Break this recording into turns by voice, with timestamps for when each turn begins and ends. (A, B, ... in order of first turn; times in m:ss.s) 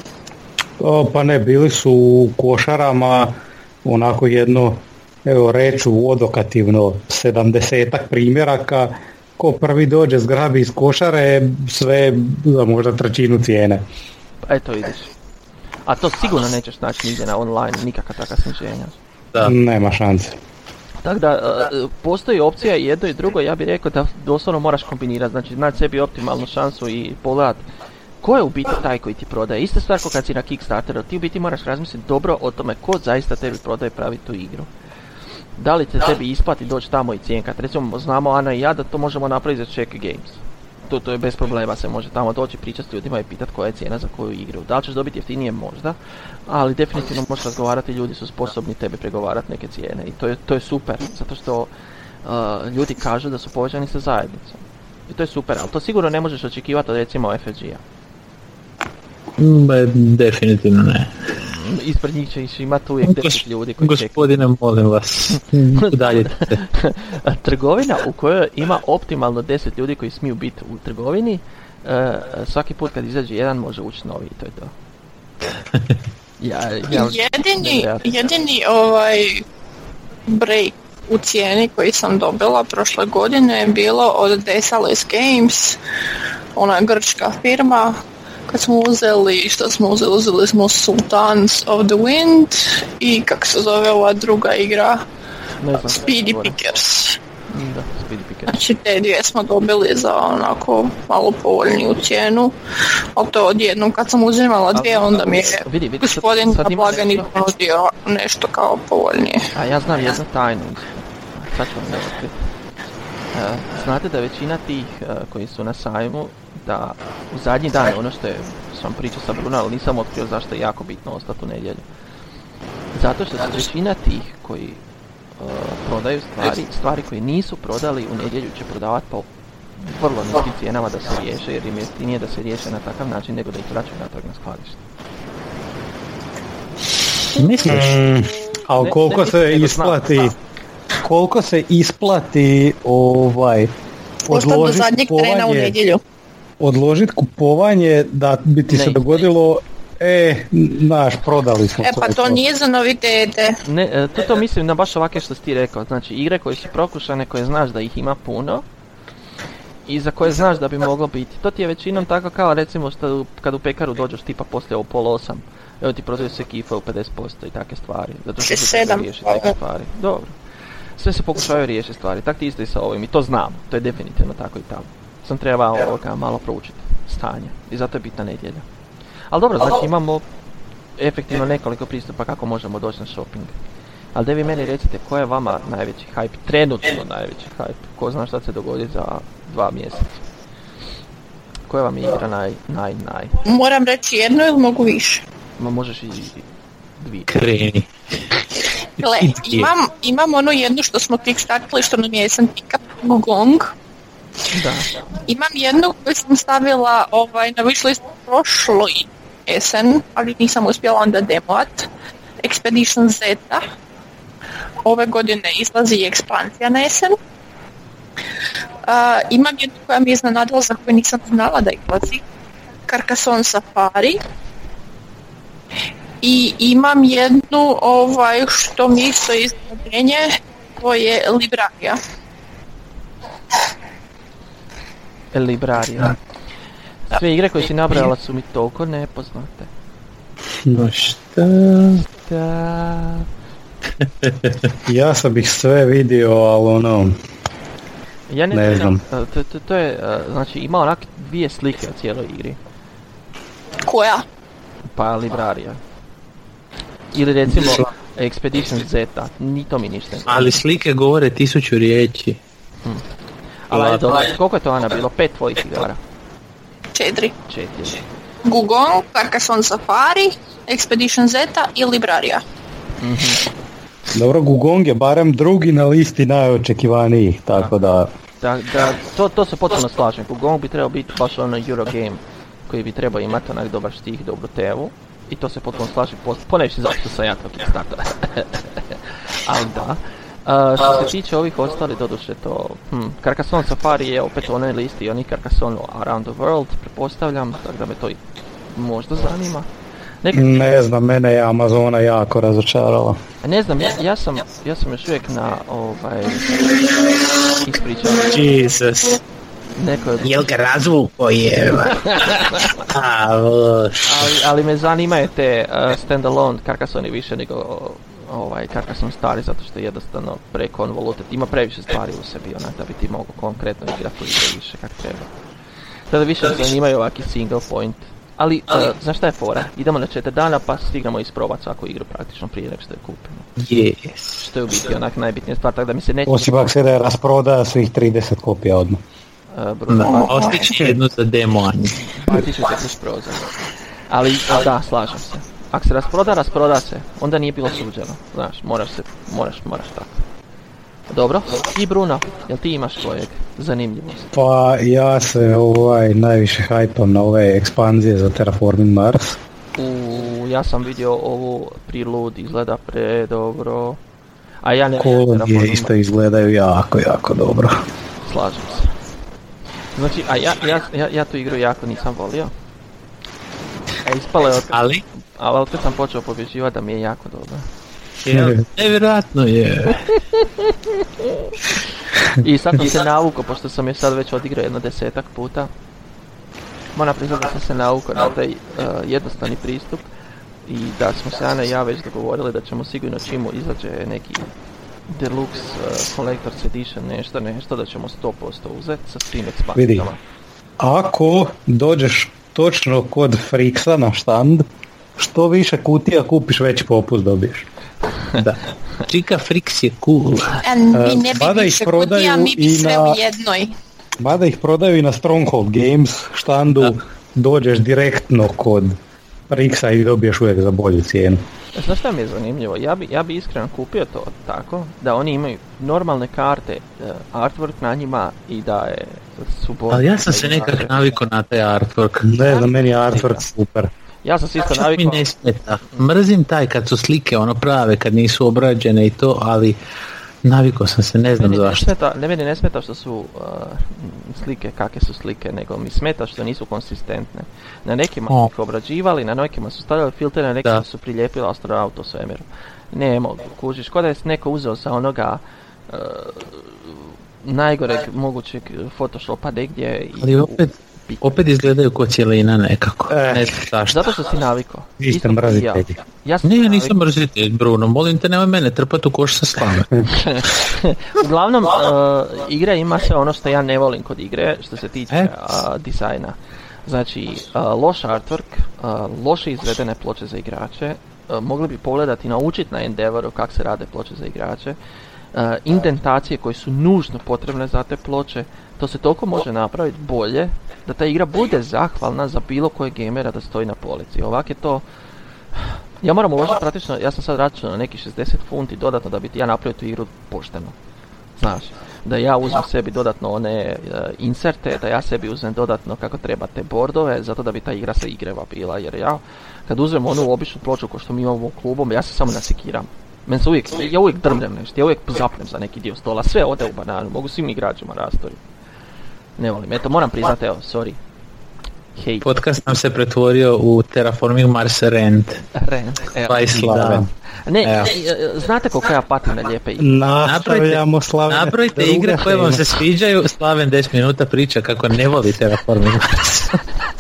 0:00.8-0:13.8 A
0:14.4-0:15.1 B
0:15.9-0:18.9 B
0:19.4-0:20.4 A
0:21.0-0:27.6 B
0:28.2-0:34.7 B
0:35.6-0:51.7 B
0:52.2-0:57.8 B
0:59.4-1:01.3 C
1:01.3-1:04.4 B
1:03.0-1:06.6 C
1:05.3-1:14.7 B
1:16.4-1:18.1 B
1:16.9-1:19.4 D
1:20.3-1:25.8 D
1:26.6-1:28.0 D
1:28.5-1:35.0 D
1:35.6-1:36.6 B
1:35.9-1:37.2 D
1:37.5-1:38.6 B
1:38.5-1:42.6 D
1:43.2-1:49.5 D
1:44.8-1:47.3 B
1:49.6-1:52.4 B
1:53.3-2:01.8 B
2:02.9-2:04.8 B
2:05.4-2:14.8 B
2:17.4-2:18.0 C
2:17.7-2:20.3 A
2:18.8-2:20.2 B
2:21.0-2:23.7 A
2:24.3-2:25.8 A
2:24.3-2:26.0 D
2:26.6-2:32.4 A
2:28.7-2:29.2 B
2:31.8-2:33.6 D
2:33.6-2:38.6 B
2:39.9-2:50.4 B
2:48.4-2:49.6 D
2:51.0-2:58.6 B
2:59.3-3:00.2 B
3:01.0-3:03.5 B
3:04.1-3:10.2 B
3:11.7-3:13.4 B
3:13.4-3:15.2 D
3:15.6-3:17.4 B
3:17.3-3:18.4 C
3:19.0-3:23.7 D
3:19.1-3:19.7 C
3:24.5-3:25.0 B
3:25.2-3:31.9 D
3:32.4-3:33.7 D
3:34.8-3:37.2 D
3:38.9-3:42.2 D
3:42.9-3:44.2 D
3:46.2-3:52.0 D
3:55.3-3:56.2 B
3:57.1-3:59.7 B
4:00.7-4:02.0 C
4:02.1-4:03.3 B
4:04.2-4:04.6 C
4:04.9-4:07.2 A
4:08.3-4:12.6 B
4:08.5-4:09.0 A
4:13.8-4:14.2 D
4:14.9-4:15.8 B
4:17.1-4:20.6 B
4:20.3-4:22.4 C
4:23.7-4:26.0 B
4:23.7-4:24.3 C
4:27.0-4:27.3 D
4:27.5-4:28.0 B
4:28.5-4:32.4 D
4:33.0-4:33.4 B
4:34.1-4:38.1 A
4:38.4-4:59.7 B
5:00.2-5:00.7 B
5:00.3-5:03.2 A
5:03.4-5:06.7 B
5:07.6-5:08.4 B
5:08.2-5:09.2 C
5:09.8-5:10.5 B
5:10.2-5:14.4 C
5:11.8-5:12.9 B
5:14.0-5:25.3 B
5:26.1-5:33.5 B
5:33.6-5:34.4 C
5:34.4-5:36.6 B
5:36.3-5:39.0 A
5:39.5-5:40.7 B
5:39.9-5:42.0 C
5:40.0-5:40.7 D
5:42.0-5:50.2 B
5:51.1-5:54.3 B
5:54.3-5:59.4 A
5:59.8-6:04.0 B
6:04.6-6:05.9 B
6:05.0-6:07.8 A
6:08.2-6:08.9 B
6:10.0-6:12.5 B
6:14.0-6:17.7 B
6:14.7-6:15.0 C
6:18.2-6:20.1 C
6:18.3-6:18.6 A
6:20.3-6:25.7 B
6:27.0-6:30.1 B
6:30.6-6:34.5 B
6:35.1-6:40.2 B
6:39.8-6:40.1 A
6:40.8-6:44.7 A
6:45.2-6:47.7 A
6:48.3-6:50.6 C
6:50.6-6:53.7 D
6:50.9-6:53.2 A
6:54.2-6:59.0 A
6:59.5-7:01.4 A
7:01.8-7:10.9 B
7:09.9-7:12.3 C
7:12.2-7:13.9 A
7:12.5-7:13.5 B
7:14.2-7:15.3 B
7:14.7-7:19.8 C
7:20.4-7:21.8 C
7:21.3-7:41.4 B
7:40.2-7:44.1 C
7:43.1-7:43.5 A
7:43.9-7:47.0 B
7:45.0-7:46.0 A
7:46.4-7:50.0 C
7:50.1-8:04.8 B
8:05.3-8:14.8 B
8:15.5-8:20.8 B
8:21.4-8:38.4 B
8:39.4-8:41.0 B
8:42.0-8:42.3 B
8:42.2-8:45.4 C
8:45.5-8:46.7 B
8:46.3-8:47.1 C
8:46.5-8:47.1 A
8:47.4-8:50.0 B
8:47.6-8:47.9 C
8:49.8-8:52.6 A
8:50.2-8:56.6 C